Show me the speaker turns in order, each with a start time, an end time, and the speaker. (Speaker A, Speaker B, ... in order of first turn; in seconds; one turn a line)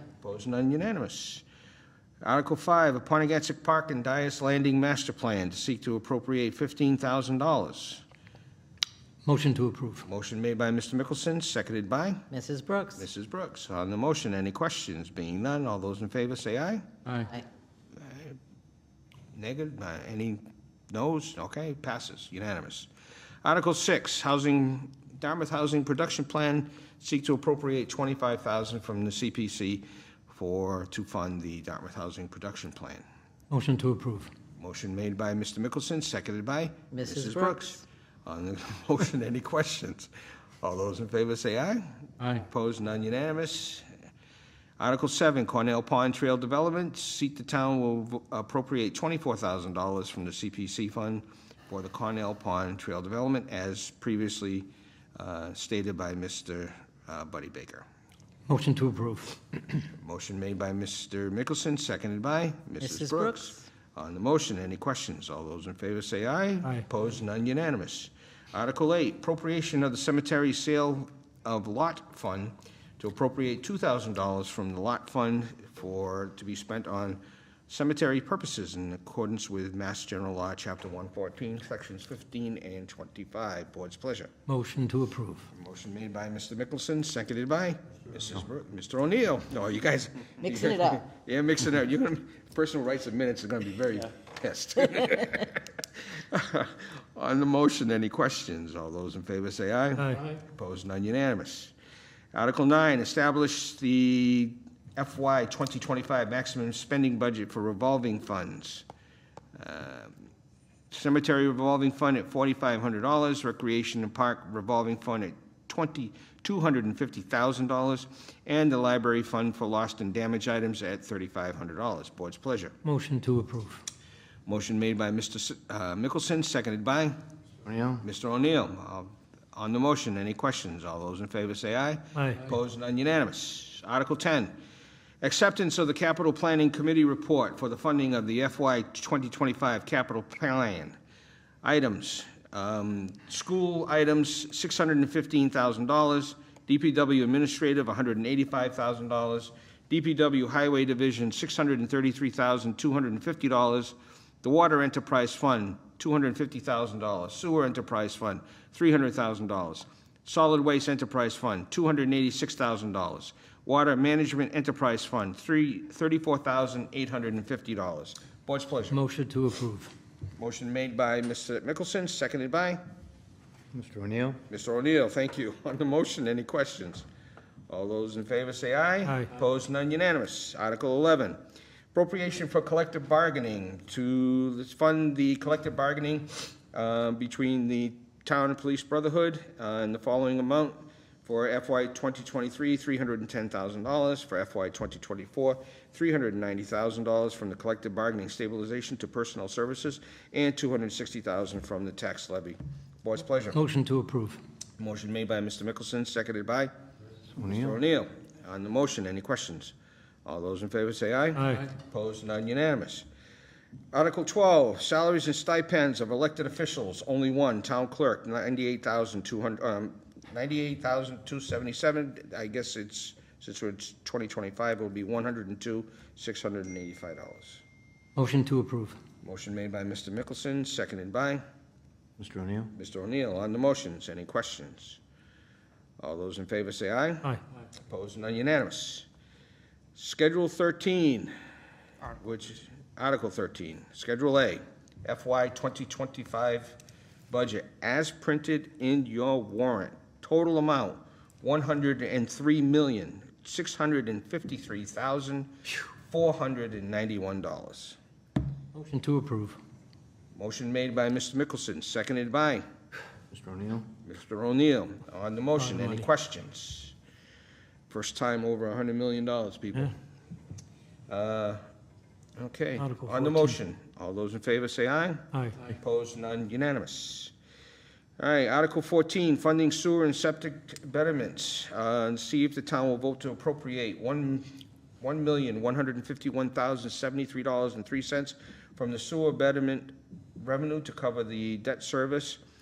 Speaker A: 0.2-1.4
Speaker A: 2.2-8.0
Speaker B: 9.2-10.1
Speaker A: 10.0-12.3
Speaker C: 12.3-13.0
Speaker A: 12.9-16.9
Speaker A: 18.1-18.4
Speaker A: 19.3-22.9
Speaker A: 23.4-33.0
Speaker B: 33.5-34.3
Speaker A: 34.6-43.8
Speaker C: 36.9-37.8
Speaker A: 44.8-57.9
Speaker B: 58.5-59.6
Speaker A: 59.9-84.3
Speaker C: 62.8-63.6
Speaker B: 84.5-85.5
Speaker A: 85.5-95.6
Speaker C: 90.4-91.0
Speaker A: 96.3-101.7
Speaker A: 102.3-108.8
Speaker A: 109.5-110.2
Speaker A: 110.9-122.7
Speaker B: 122.8-123.8
Speaker A: 124.5-127.2
Speaker D: 127.6-128.0
Speaker A: 128.0-134.5
Speaker B: 132.1-132.4
Speaker A: 135.2-141.0
Speaker A: 141.6-169.0
Speaker B: 168.9-169.9
Speaker A: 170.4-172.8
Speaker D: 173.7-174.4
Speaker A: 174.5-177.0
Speaker A: 177.7-181.4
Speaker A: 181.9-203.6
Speaker B: 203.5-204.4
Speaker A: 204.8-206.7
Speaker D: 207.3-207.8
Speaker A: 207.5-209.7
Speaker A: 210.2-213.1
Speaker B: 211.4-211.6
Speaker A: 213.9-227.6
Speaker B: 228.2-229.0
Speaker A: 229.2-231.4
Speaker D: 232.2-232.7
Speaker A: 232.7-235.0
Speaker A: 236.0-237.3
Speaker A: 237.9-239.1
Speaker A: 239.9-241.3
Speaker A: 242.1-258.0
Speaker B: 258.7-259.6
Speaker A: 260.3-262.6
Speaker D: 263.3-263.9
Speaker A: 264.0-266.9
Speaker A: 267.9-270.0
Speaker A: 271.1-271.6
Speaker A: 272.4-277.3
Speaker B: 272.8-273.6
Speaker A: 278.2-292.4